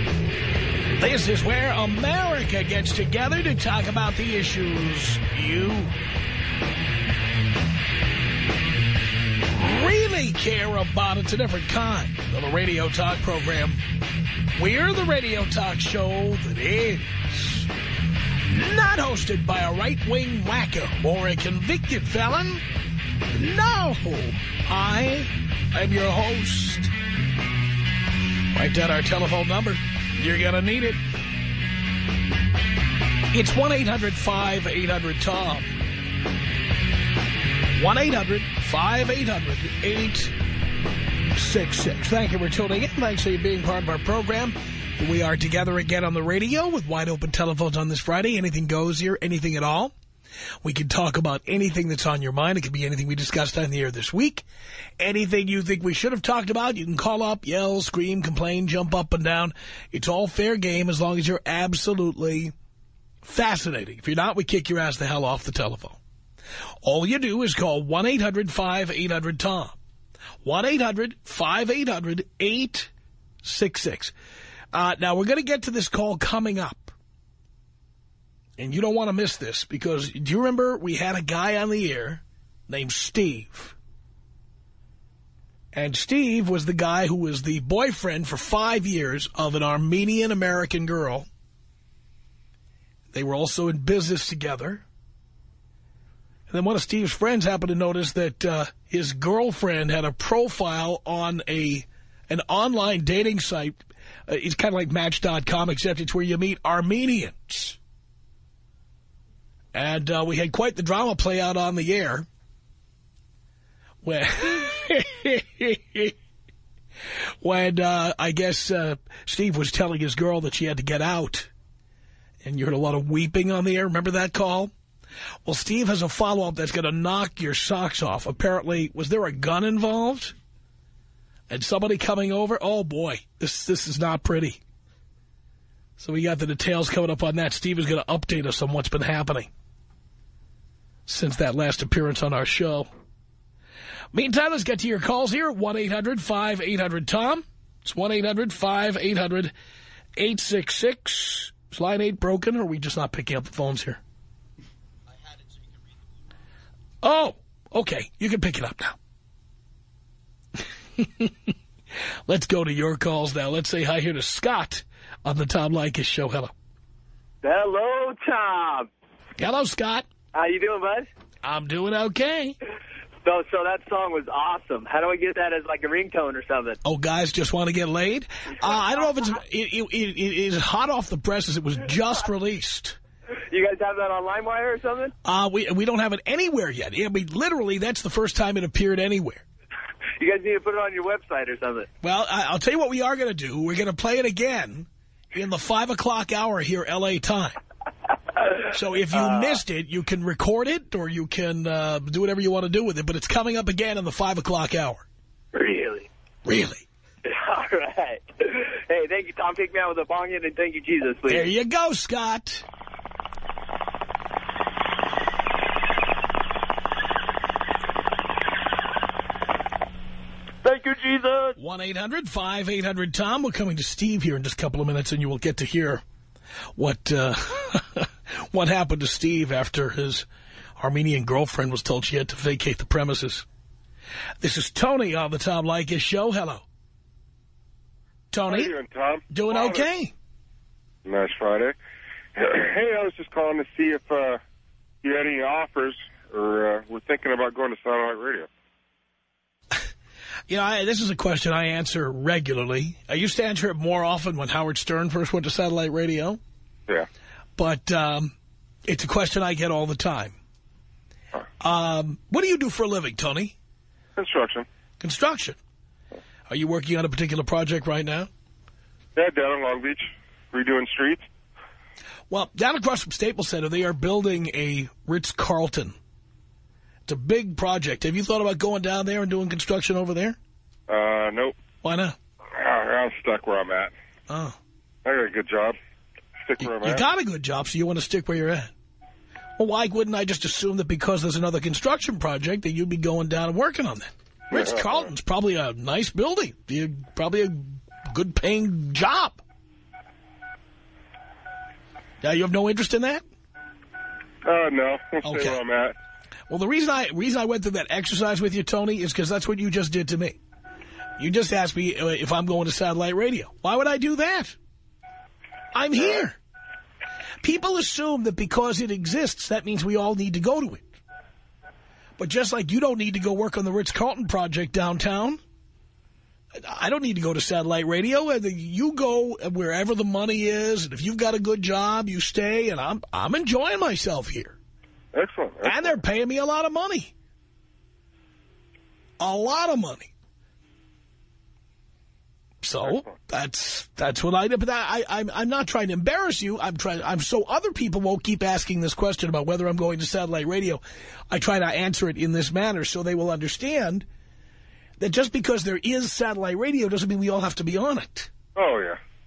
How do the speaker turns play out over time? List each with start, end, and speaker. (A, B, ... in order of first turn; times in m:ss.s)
0:01.0-0:05.9 A
0:09.5-0:13.8 A
0:14.5-0:17.7 A
0:18.5-0:22.6 A
0:23.3-0:26.9 A
0:28.5-0:31.0 A
0:33.3-0:35.7 A
0:37.7-0:40.3 A
0:41.3-0:49.9 A
0:50.6-0:54.4 A
0:55.0-1:02.5 A
1:03.2-1:06.0 A
1:06.8-1:09.8 A
1:10.4-1:12.9 A
1:13.4-1:14.1 A
1:14.7-1:16.9 A
1:18.6-1:23.8 A
1:25.7-1:31.2 A
1:33.1-1:34.8 A
1:36.5-1:47.8 A
1:49.7-1:52.3 A
1:54.0-1:56.1 A
1:57.4-2:01.5 A
2:02.4-2:04.7 A
2:05.4-2:10.3 A
2:11.5-2:14.6 A
2:16.0-2:19.5 A
2:21.1-2:22.9 A
2:24.1-2:29.5 A
2:30.2-2:34.0 A
2:37.0-2:39.0 A
2:41.0-2:41.5 A
2:42.3-2:46.5 A
2:47.4-2:48.9 B
2:49.4-2:50.1 A
2:50.3-2:51.1 B
2:51.4-2:52.6 A
2:53.2-2:56.8 B
2:56.8-3:03.0 A
3:03.5-3:05.1 B
3:05.2-3:09.4 A
3:10.2-3:11.9 B
3:12.0-3:17.6 A
3:18.7-3:25.0 A
3:19.1-3:19.5 B
3:25.5-3:26.1 B
3:26.4-3:26.8 A
3:27.3-3:31.4 B
3:31.3-3:32.6 A
3:40.7-3:41.5 B
3:41.6-3:46.0 A
3:46.8-3:50.3 A
3:50.8-3:53.4 A
3:54.4-3:56.6 A
3:58.3-3:58.7 A
3:58.4-3:59.9 C
3:59.3-4:00.1 A
4:01.0-4:01.7 C
4:02.4-4:04.4 C
4:05.0-4:08.5 C
4:10.5-4:16.4 A
4:17.6-4:18.3 A
4:18.8-4:20.4 A
4:21.6-4:23.5 A
4:24.2-4:24.6 C
4:25.0-4:25.6 A
4:26.5-4:28.3 A
4:29.1-4:31.2 C
4:32.3-4:36.0 A
4:37.1-4:40.4 A
4:40.9-4:41.5 C
4:41.8-4:42.2 A
4:42.6-4:43.9 C
4:44.3-4:44.6 A
4:45.0-4:45.8 C
4:46.4-4:47.0 C
4:46.6-4:48.7 A
4:49.6-4:59.4 A
4:54.5-4:55.1 C
5:02.2-5:03.2 A
5:04.4-5:05.9 C
5:05.2-5:05.6 A
5:06.5-5:10.4 A
5:11.2-5:14.6 A
5:15.7-5:16.4 A
5:17.4-5:20.9 A
5:22.2-5:25.4 A
5:26.6-5:34.6 A
5:35.1-5:36.0 C
5:35.6-5:37.1 A
5:39.2-5:40.1 A
5:42.6-5:54.0 A
5:42.8-5:43.1 C
5:55.0-5:58.3 A
5:58.5-5:59.0 C